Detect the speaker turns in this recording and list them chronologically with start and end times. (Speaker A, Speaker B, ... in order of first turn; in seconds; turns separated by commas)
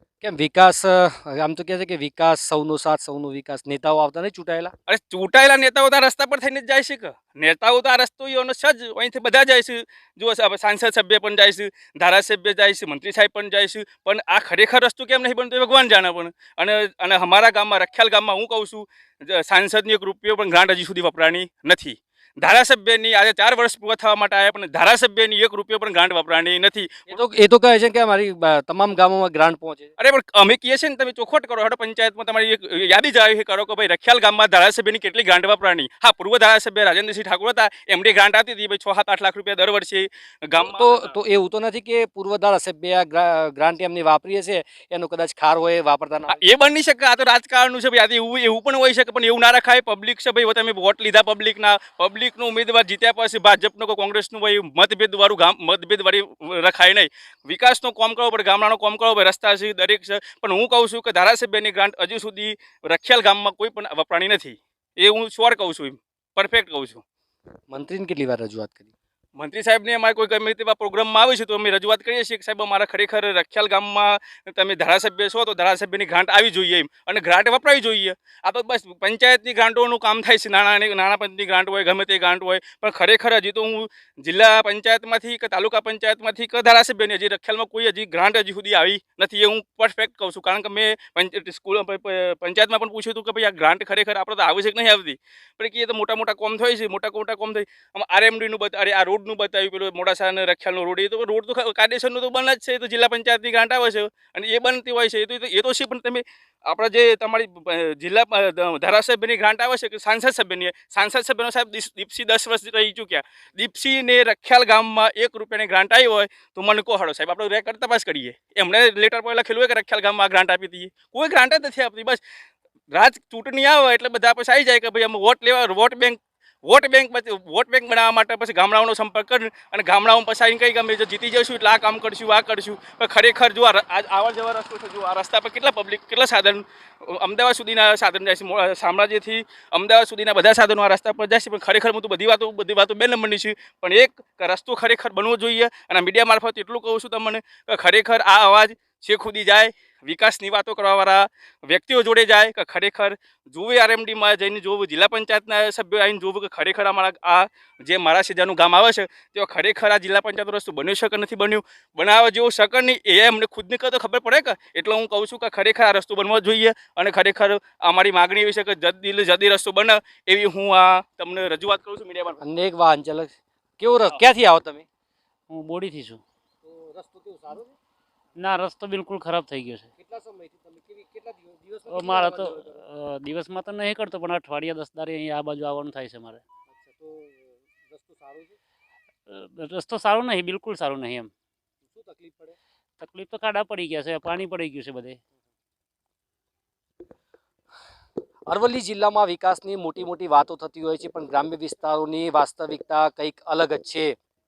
Speaker A: 0.2-4.7, Speaker B: 4.9-27.2, Speaker A: 27.1-29.9, Speaker B: 30.0-41.1, Speaker A: 40.6-46.4, Speaker B: 46.3-67.0, Speaker A: 67.7-68.9, Speaker B: 69.3-122.2, Speaker B: 122.9-172.4, Speaker A: 172.4-174.8, Speaker C: 175.5-176.2, Speaker A: 176.7-177.7, Speaker C: 178.4-179.9, Speaker A: 180.0-182.6, Speaker C: 181.9-186.4, Speaker A: 187.0-187.4, Speaker A: 187.9-188.4, Speaker C: 189.3-191.3, Speaker A: 191.9-192.5, Speaker C: 193.0-195.2, Speaker A: 198.5-204.2